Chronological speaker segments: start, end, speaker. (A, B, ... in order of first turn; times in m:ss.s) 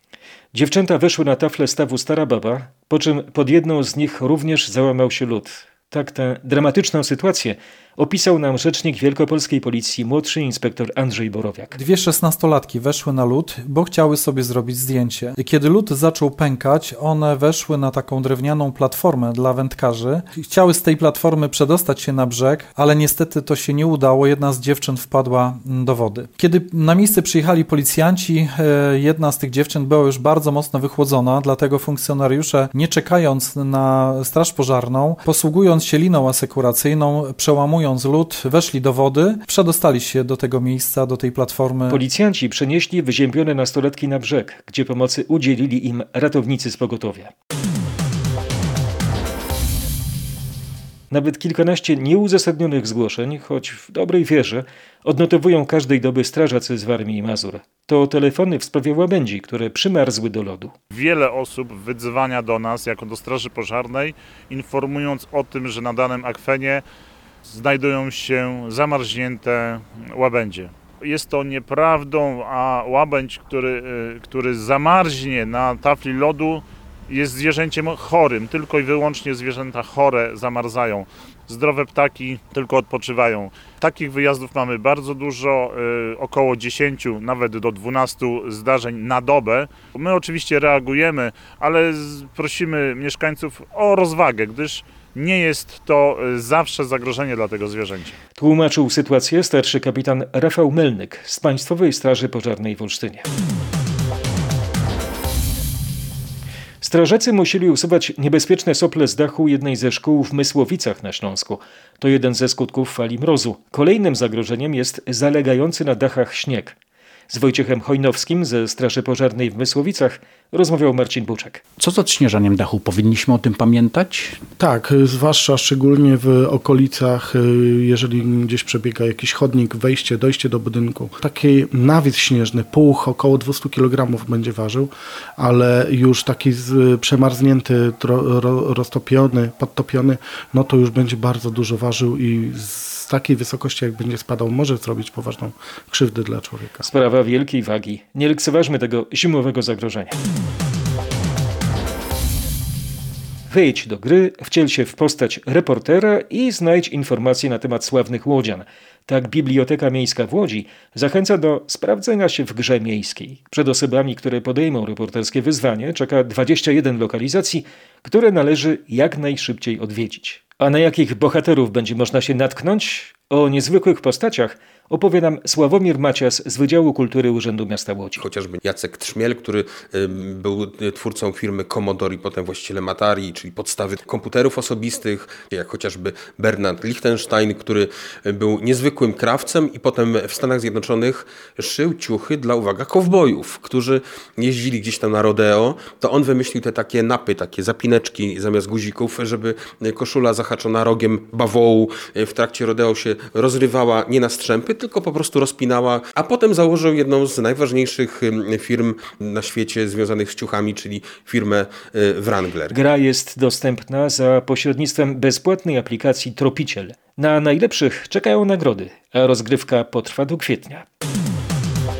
0:00.5-0:11.8 A
0:11.7-0:42.0 B
0:41.9-0:47.3 A
0:51.1-1:00.7 A
1:00.9-1:06.8 C
1:07.4-1:38.2 C
1:38.4-1:43.2 A
1:46.8-1:56.8 A
1:57.3-2:01.6 A
2:01.8-2:04.4 D
2:04.6-2:26.8 E
2:26.8-2:30.2 A
2:33.5-2:58.2 A
2:58.2-3:32.8 F
3:32.7-3:40.8 A